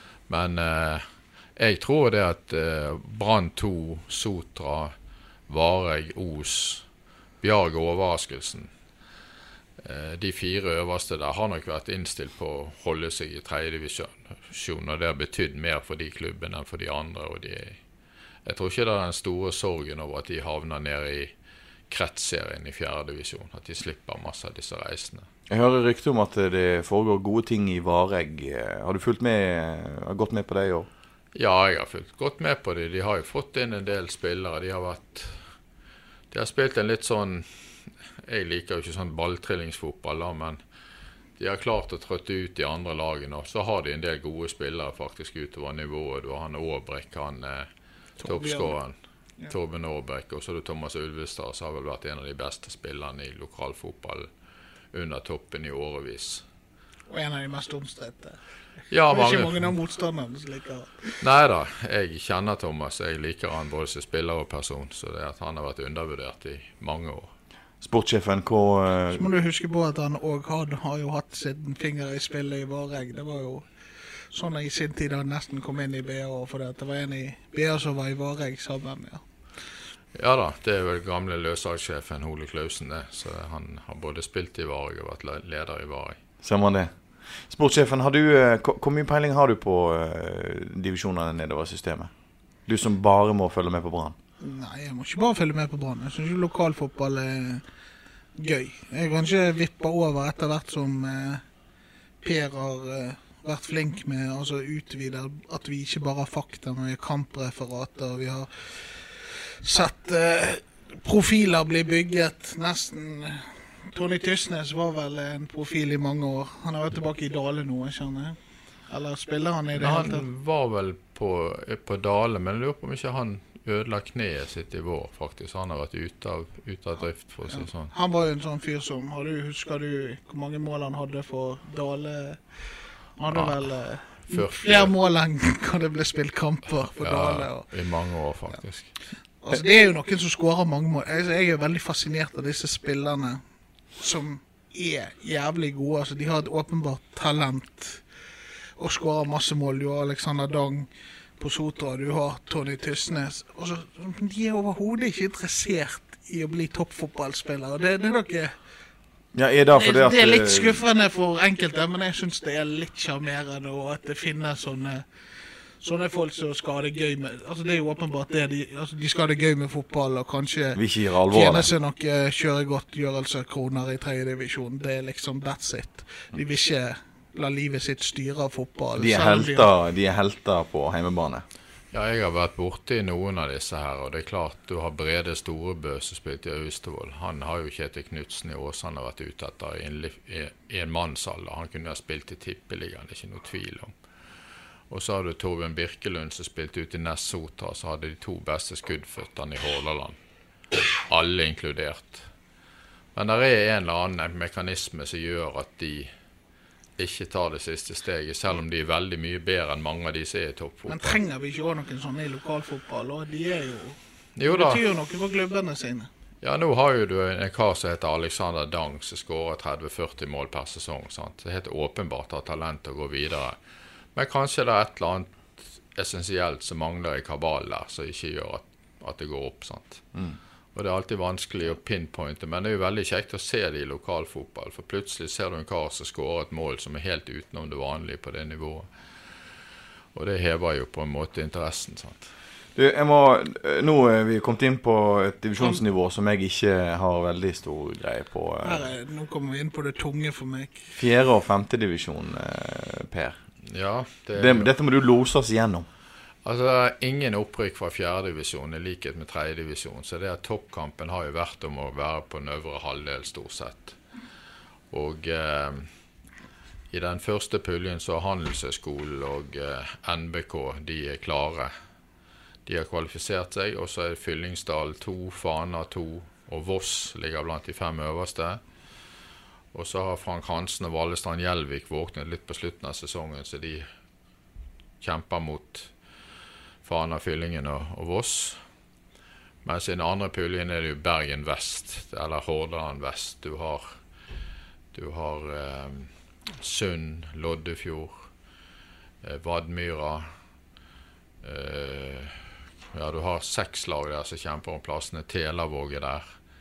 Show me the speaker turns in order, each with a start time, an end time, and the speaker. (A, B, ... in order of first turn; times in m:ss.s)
0:00.3-0:01.0 A
0:01.6-0:04.9 A
0:05.5-0:06.8 A
0:07.4-0:08.7 A
0:09.8-0:17.8 A
0:18.4-0:21.3 A
0:21.9-0:25.3 A
0:25.5-0:30.9 B
0:31.3-0:35.4 A
0:36.3-0:37.5 A
0:38.2-0:40.6 A
0:41.4-0:47.7 A
0:48.2-0:48.7 C
0:48.2-0:49.0 A
0:49.5-0:54.3 A
0:54.9-0:56.4 A
0:57.1-0:58.4 C
0:58.9-0:59.7 A
0:59.1-1:01.2 C
1:01.2-1:07.3 A
1:07.8-1:09.2 B
1:09.1-1:13.6 C
1:14.3-1:19.2 C
1:20.1-1:26.2 A
1:26.4-1:32.1 B
1:32.6-1:34.2 B
1:34.4-1:37.6 C
1:38.4-1:41.4 C
1:42.2-1:58.4 C
1:58.9-2:00.2 C
1:59.8-2:07.9 A
2:07.5-2:12.6 C
2:13.2-2:17.7 C
2:14.1-2:14.9 A
2:16.8-2:18.9 A
2:19.4-2:23.4 C
2:24.0-2:28.0 C
2:28.8-2:38.5 C
2:39.3-2:40.8 B
2:39.7-2:45.0 C
2:45.8-2:59.7 C
2:50.7-2:51.7 B
2:59.0-3:01.4 B
3:01.9-3:13.9 A
3:14.9-3:20.2 A
3:21.1-3:22.3 A
3:23.1-3:26.1 A
3:27.0-3:31.2 A
3:30.9-3:36.1 C
3:34.4-3:34.8 A
3:36.4-3:43.6 A
3:44.1-3:50.0 A
3:50.7-3:58.9 A
4:00.1-4:02.3 A
4:02.7-4:08.9 B
4:08.6-4:10.9 C
4:11.0-4:13.4 B
4:13.6-4:14.7 A
4:14.4-4:15.9 B
4:16.4-4:24.0 A
4:24.9-4:25.9 A
4:26.9-4:31.7 A
4:32.6-4:38.6 A
4:39.7-4:43.8 A
4:45.0-4:45.9 A
4:46.8-4:48.6 A
4:49.6-4:54.0 A
4:54.9-4:58.3 A
4:59.2-5:00.3 A
5:01.4-5:06.2 A